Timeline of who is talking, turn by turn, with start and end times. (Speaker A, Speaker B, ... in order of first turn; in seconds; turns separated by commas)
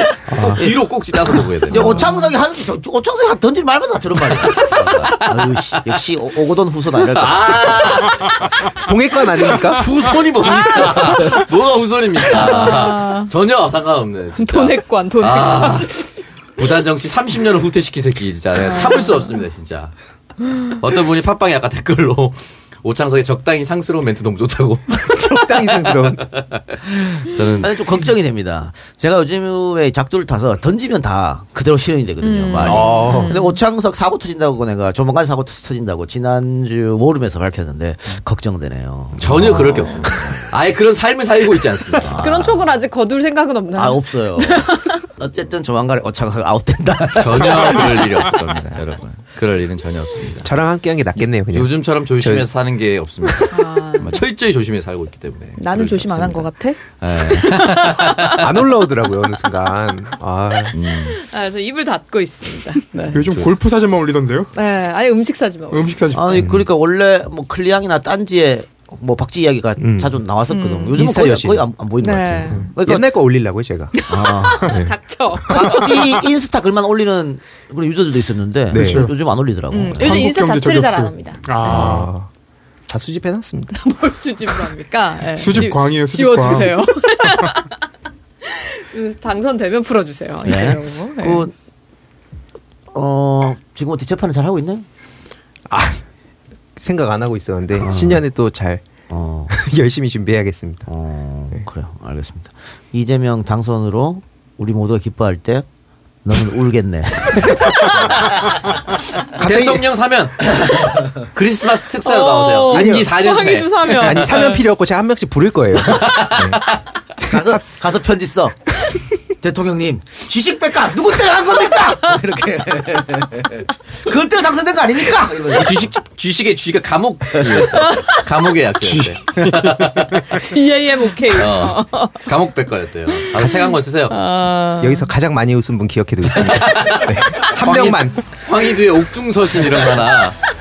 Speaker A: 0.3-0.8, Speaker B: 0.3-2.0, Speaker C: 1.7-7.9, Speaker B: 4.5-5.3, Speaker B: 7.2-8.4, Speaker A: 8.8-9.8, Speaker B: 9.7-19.9, Speaker D: 12.3-13.3, Speaker D: 14.4-15.9, Speaker D: 18.7-19.1, Speaker B: 20.6-27.7, Speaker A: 25.0-26.3, Speaker C: 27.6-40.5, Speaker D: 32.2-33.6, Speaker A: 32.6-33.4, Speaker B: 32.6-32.9, Speaker B: 39.2-42.2, Speaker C: 41.9-42.7, Speaker D: 42.2-45.0, Speaker C: 43.8-48.4, Speaker B: 47.2-50.5, Speaker A: 50.4-52.5, Speaker B: 51.2-58.5, Speaker D: 53.5-54.2, Speaker D: 55.6-56.8, Speaker D: 57.4-58.1, Speaker A: 58.3-60.8, Speaker B: 60.7-61.2, Speaker D: 61.1-63.2, Speaker E: 63.1-64.5, Speaker D: 64.5-66.1, Speaker E: 65.7-66.5, Speaker C: 66.1-73.1, Speaker A: 66.3-66.7, Speaker A: 69.8-70.2, Speaker D: 70.5-71.0, Speaker A: 70.9-71.7, Speaker D: 72.0-72.7, Speaker A: 72.2-74.0, Speaker D: 73.9-75.9, Speaker C: 74.1-74.8, Speaker A: 74.5-75.0, Speaker C: 75.5-80.3, Speaker A: 78.7-79.1, Speaker E: 78.7-79.1, Speaker D: 79.7-82.1, Speaker E: 80.0-82.1, Speaker A: 81.6-82.3, Speaker A: 82.9-83.8, Speaker D: 83.7-87.7, Speaker E: 85.3-86.8, Speaker D: 88.4-91.5, Speaker C: 90.4-91.5, Speaker C: 92.9-94.9, Speaker A: 95.7-96.1, Speaker A: 96.8-98.9, Speaker C: 97.8-98.2, Speaker C: 99.1-99.5, Speaker A: 99.5-100.9, Speaker C: 100.9-105.7, Speaker C: 106.2-108.6, Speaker B: 109.4-114.3, Speaker A: 109.4-109.8, Speaker D: 112.0-114.7, Speaker A: 112.7-113.2, Speaker A: 113.9-116.6, Speaker B: 115.9-116.6, Speaker A: 117.2-117.6, Speaker C: 117.2-118.8, Speaker C: 119.4-125.9, Speaker B: 125.5-130.3, Speaker E: 128.8-130.2, Speaker D: 130.3-132.2, Speaker B: 131.4-134.2, Speaker D: 133.2-135.1, Speaker A: 134.8-138.3, Speaker B: 136.4-140.4